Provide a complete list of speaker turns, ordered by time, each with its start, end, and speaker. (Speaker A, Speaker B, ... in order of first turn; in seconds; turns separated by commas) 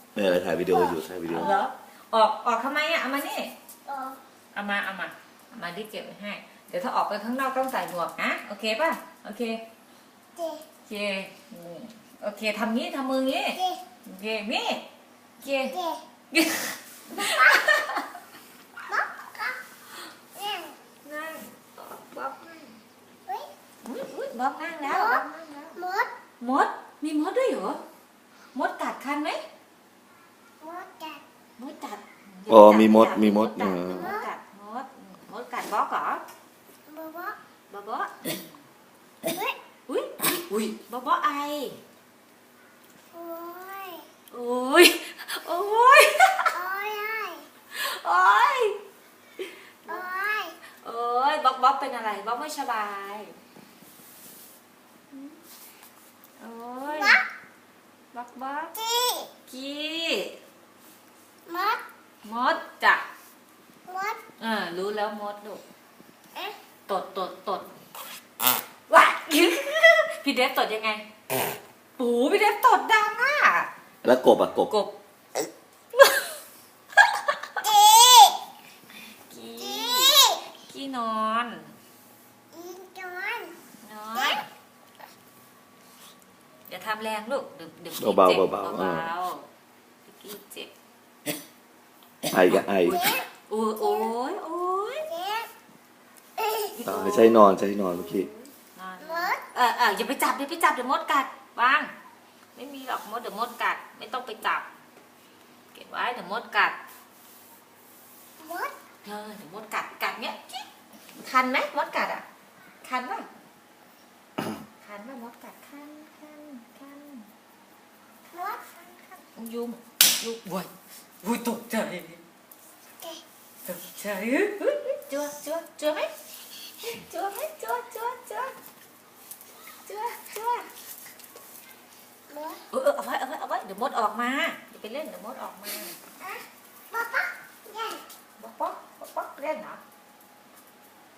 Speaker A: 0.1-1.5, Speaker B: 0.7-1.6, Speaker C: 1.3-3.5, Speaker B: 3.9-4.2, Speaker C: 4.5-9.6, Speaker B: 10.3-10.6, Speaker C: 10.8-14.8, Speaker B: 13.5-13.8, Speaker C: 15.4-15.8, Speaker B: 15.7-16.0, Speaker C: 16.3-18.1, Speaker B: 17.1-17.7, Speaker B: 18.9-19.6, Speaker B: 20.4-20.8, Speaker C: 21.0-22.8, Speaker C: 23.8-25.8, Speaker B: 24.9-25.2, Speaker B: 25.8-26.1, Speaker C: 26.4-27.8, Speaker C: 28.5-29.4, Speaker B: 30.6-31.2, Speaker C: 31.6-36.2, Speaker A: 32.5-34.1, Speaker B: 33.9-34.3, Speaker B: 36.9-37.4, Speaker C: 37.7-38.6, Speaker B: 39.3-39.5, Speaker C: 39.9-41.8, Speaker B: 43.1-44.0, Speaker C: 44.3-46.5, Speaker B: 46.5-47.5, Speaker C: 47.7-48.8, Speaker B: 49.9-50.5, Speaker C: 50.8-53.4, Speaker C: 55.1-55.4, Speaker C: 56.4-57.2, Speaker B: 56.9-57.2, Speaker C: 58.1-58.7, Speaker B: 58.8-59.3, Speaker C: 59.5-60.4, Speaker B: 61.5-61.8, Speaker C: 62.2-63.0, Speaker B: 63.9-64.2, Speaker C: 64.4-65.6, Speaker C: 66.9-67.7, Speaker C: 68.9-71.0, Speaker C: 72.0-73.7, Speaker A: 74.0-74.7, Speaker C: 74.7-74.9, Speaker C: 75.9-76.3, Speaker C: 77.0-77.6, Speaker B: 77.6-78.4, Speaker C: 79.3-81.7, Speaker B: 79.6-80.4, Speaker B: 82.5-83.5, Speaker C: 83.8-84.4, Speaker B: 84.1-84.4, Speaker C: 86.7-89.5, Speaker A: 88.0-89.1, Speaker C: 90.0-90.7, Speaker A: 92.3-93.0, Speaker C: 92.8-95.1, Speaker B: 92.9-93.2, Speaker B: 93.8-94.1, Speaker B: 95.1-95.5, Speaker B: 96.4-96.7, Speaker C: 96.7-101.9, Speaker A: 96.8-98.3, Speaker B: 99.0-99.4, Speaker C: 102.5-104.7, Speaker C: 105.7-106.8, Speaker B: 108.4-108.7, Speaker C: 109.0-110.6, Speaker C: 111.2-112.2, Speaker C: 112.8-113.3, Speaker C: 114.8-117.3, Speaker B: 118.3-118.6, Speaker C: 118.6-120.7, Speaker C: 121.2-122.2, Speaker C: 123.6-126.1, Speaker C: 126.8-128.5, Speaker C: 129.8-130.7, Speaker B: 132.3-132.6, Speaker C: 132.7-136.0, Speaker B: 136.2-138.0, Speaker C: 138.4-139.8